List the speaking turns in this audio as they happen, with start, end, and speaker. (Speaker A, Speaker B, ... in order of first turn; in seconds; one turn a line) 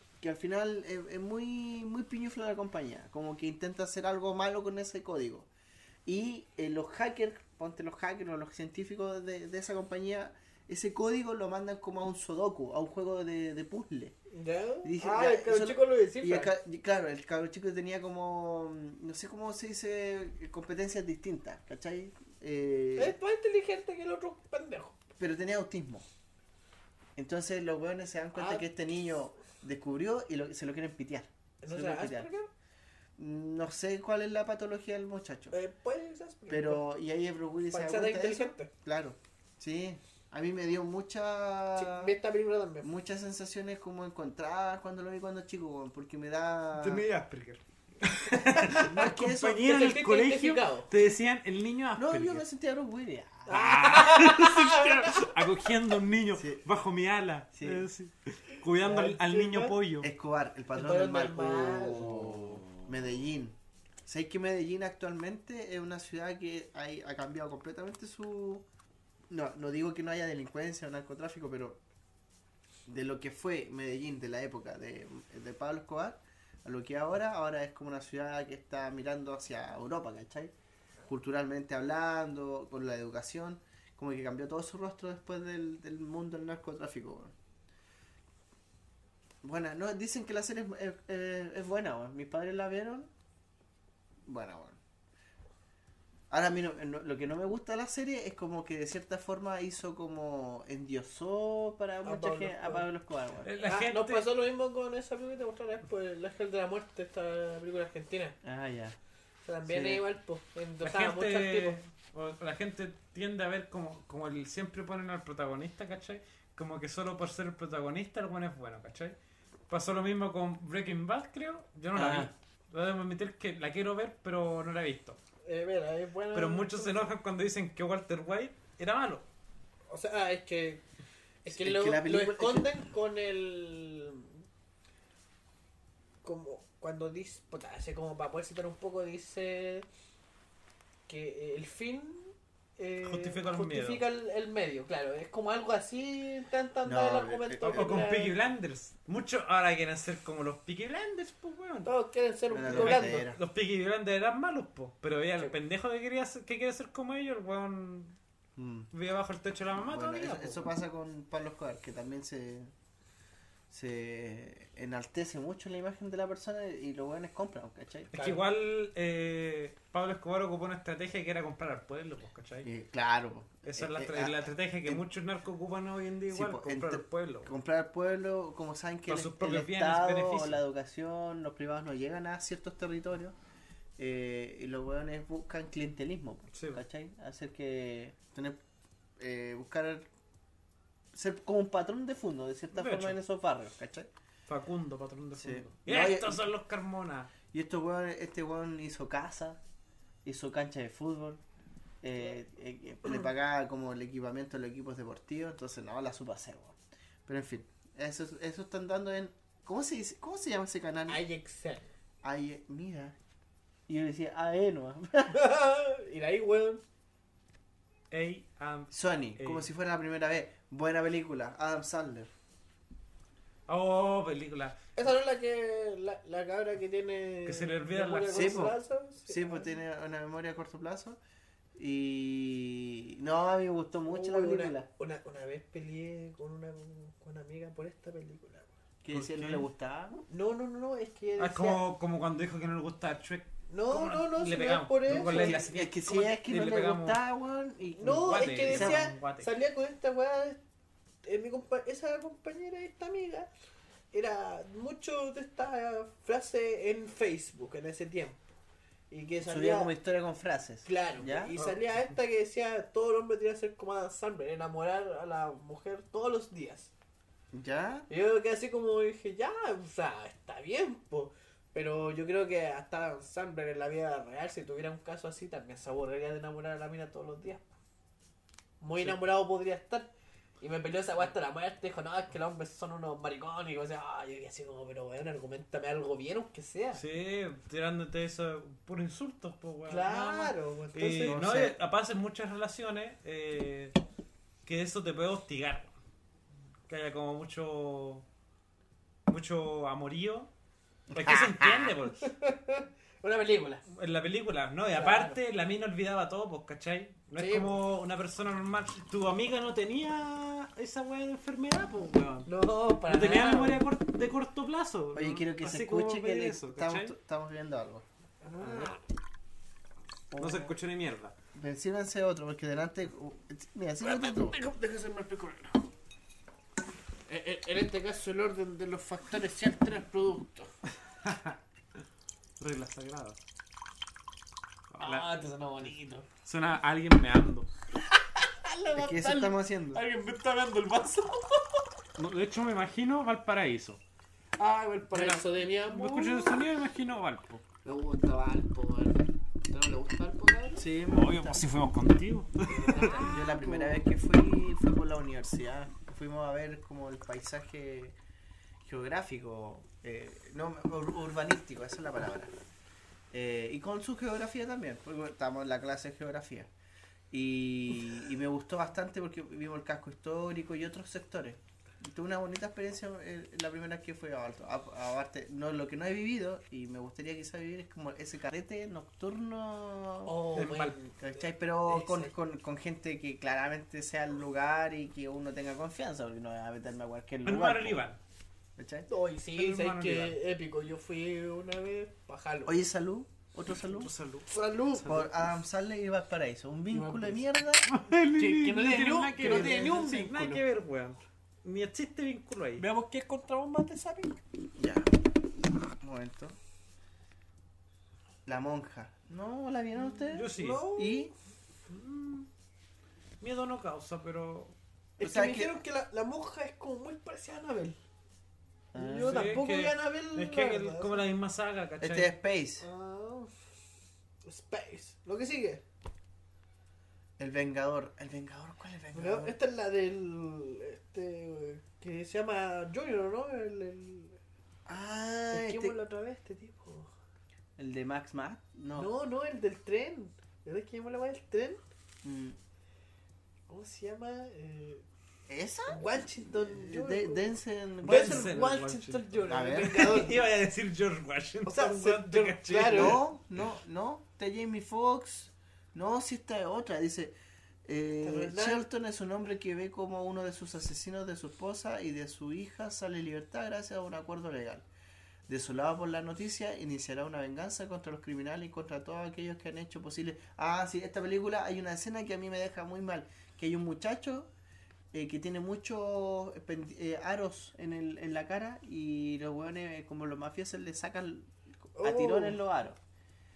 Speaker A: 0.2-5.5
Speaker A: 6.1-14.2
Speaker B: 14.3-16.5
Speaker A: 14.8-23.2
Speaker B: 23.0-25.0
Speaker A: 25.2-26.1
Speaker A: 27.2-32.3
Speaker B: 28.4-28.7
Speaker B: 31.6-32.5
Speaker A: 33.2-35.5
Speaker B: 35.5-36.9
Speaker A: 36.5-42.1
Speaker B: 37.7-38.7
Speaker B: 41.8-42.9
Speaker A: 42.8-47.0
Speaker C: 46.8-52.4
Speaker A: 48.7-49.7
Speaker B: 48.8-50.9
Speaker A: 52.0-53.7
Speaker B: 53.5-55.3
Speaker C: 53.5-60.1
Speaker A: 56.4-56.6
Speaker A: 57.6-57.9
Speaker B: 58.8-59.8
Speaker A: 60.0-68.7
Speaker B: 60.8-62.3
Speaker A: 69.3-71.8
Speaker A: 72.9-80.5
Speaker A: 81.0-87.3
Speaker A: 89.4-93.1
Speaker A: 94.3-94.8
Speaker A: 96.3-103.5
Speaker B: 102.0-102.9
Speaker C: 103.4-104.3
Speaker B: 103.6-108.4
Speaker A: 108.4-109.0
Speaker B: 109.4-111.8
Speaker A: 109.7-110.0
Speaker C: 110.8-119.2
Speaker C: 119.7-125.2
Speaker A: 121.9-122.3
Speaker B: 125.4-127.1
Speaker C: 126.3-129.3
Speaker B: 129.9-130.8
Speaker B: 131.4-134.4
Speaker A: 131.5-132.7
Speaker B: 136.2-139.9
Speaker B: 141.1-148.4
Speaker C: 143.0-144.0
Speaker A: 146.8-148.1
Speaker C: 147.6-151.9
Speaker B: 151.9-153.2
Speaker A: 152.5-153.4
Speaker C: 152.7-158.2
Speaker A: 158.6-158.9
Speaker C: 158.9-160.7
Speaker A: 159.8-162.7
Speaker A: 163.7-168.2
Speaker B: 168.1-168.4
Speaker C: 168.1-172.7
Speaker A: 172.6-175.0
Speaker C: 173.7-177.5
Speaker A: 176.3-183.3
Speaker C: 179.1-180.6
Speaker A: 184.0-188.6
Speaker C: 186.5-186.8
Speaker A: 189.2-190.1
Speaker A: 191.1-194.1
Speaker C: 192.7-193.2
Speaker C: 194.5-197.3
Speaker A: 195.4-196.5
Speaker A: 197.5-199.6
Speaker A: 200.2-201.4
Speaker A: 202.0-211.2
Speaker B: 211.1-211.9
Speaker A: 212.2-213.2
Speaker A: 213.9-215.4
Speaker B: 215.3-216.8
Speaker C: 218.1-219.7
Speaker A: 218.9-222.3
Speaker C: 223.7-224.8
Speaker B: 225.0-229.7
Speaker C: 227.5-228.7
Speaker A: 228.3-231.2
Speaker A: 231.8-234.9
Speaker B: 234.1-238.7
Speaker A: 239.0-240.2
Speaker C: 239.1-239.7
Speaker B: 240.3-241.8
Speaker C: 241.4-247.2
Speaker B: 243.7-245.7
Speaker A: 245.1-249.1
Speaker B: 248.0-250.6
Speaker C: 248.0-249.5
Speaker B: 251.2-253.5
Speaker B: 254.1-258.4
Speaker B: 259.1-259.9
Speaker A: 259.4-261.7
Speaker B: 260.9-266.9
Speaker A: 267.5-268.1
Speaker B: 268.1-277.7
Speaker B: 278.8-280.1
Speaker B: 280.6-287.0
Speaker C: 286.9-294.0
Speaker B: 289.9-291.4
Speaker A: 291.2-291.8
Speaker C: 294.6-295.9
Speaker C: 296.9-298.2
Speaker C: 299.3-300.5
Speaker A: 301.1-302.0
Speaker C: 301.1-302.3
Speaker B: 302.2-303.8
Speaker C: 303.9-312.5
Speaker B: 304.9-305.4
Speaker B: 307.4-307.8
Speaker B: 312.5-313.9
Speaker C: 313.1-317.1
Speaker A: 315.1-318.0
Speaker B: 318.4-319.0
Speaker C: 318.6-318.9
Speaker A: 320.3-320.7
Speaker C: 320.4-321.4
Speaker A: 321.5-324.6
Speaker B: 324.0-325.8
Speaker B: 327.3-330.7
Speaker C: 331.2-331.6
Speaker C: 332.6-333.4
Speaker C: 334.9-335.3
Speaker B: 335.0-336.2
Speaker C: 336.4-337.7
Speaker B: 338.2-341.8
Speaker A: 339.0-340.0
Speaker C: 342.2-344.0
Speaker B: 344.6-346.6
Speaker C: 345.1-347.6
Speaker B: 347.8-350.9
Speaker A: 350.8-351.6
Speaker C: 351.1-353.4
Speaker B: 352.7-354.0
Speaker A: 353.2-358.2
Speaker A: 358.9-362.5
Speaker A: 363.3-366.7
Speaker A: 367.3-380.5
Speaker B: 380.2-381.3
Speaker C: 380.6-381.0
Speaker A: 381.2-388.0
Speaker B: 381.9-382.3
Speaker C: 387.4-388.2
Speaker A: 388.8-389.1
Speaker B: 389.1-392.8
Speaker C: 389.6-390.4
Speaker A: 392.6-394.1
Speaker C: 393.9-394.5
Speaker B: 394.5-395.2
Speaker A: 395.0-397.9
Speaker B: 396.9-397.4
Speaker C: 397.9-402.9
Speaker B: 398.3-400.6
Speaker A: 399.4-399.9
Speaker B: 402.8-404.4
Speaker A: 404.8-405.2
Speaker A: 405.8-406.6
Speaker A: 408.4-411.3
Speaker C: 410.3-410.9
Speaker B: 410.5-411.3
Speaker C: 411.9-412.5
Speaker C: 413.4-414.8
Speaker B: 415.2-418.0
Speaker A: 415.2-415.8
Speaker A: 418.9-419.5
Speaker B: 419.0-421.3
Speaker C: 419.2-422.4
Speaker A: 422.0-422.9
Speaker B: 422.8-423.5
Speaker B: 424.4-425.8
Speaker A: 427.4-429.6
Speaker B: 429.1-434.4
Speaker A: 434.9-436.0
Speaker B: 435.5-437.1
Speaker A: 437.8-439.1
Speaker B: 438.9-441.8
Speaker A: 442.2-442.6
Speaker B: 443.7-445.0
Speaker A: 445.5-448.5
Speaker B: 445.9-447.5
Speaker C: 448.0-453.2
Speaker B: 448.0-450.4
Speaker A: 449.5-450.2
Speaker B: 451.7-453.2
Speaker A: 452.8-464.9
Speaker B: 458.2-458.8
Speaker A: 465.5-474.5
Speaker A: 475.1-483.0
Speaker B: 482.0-482.6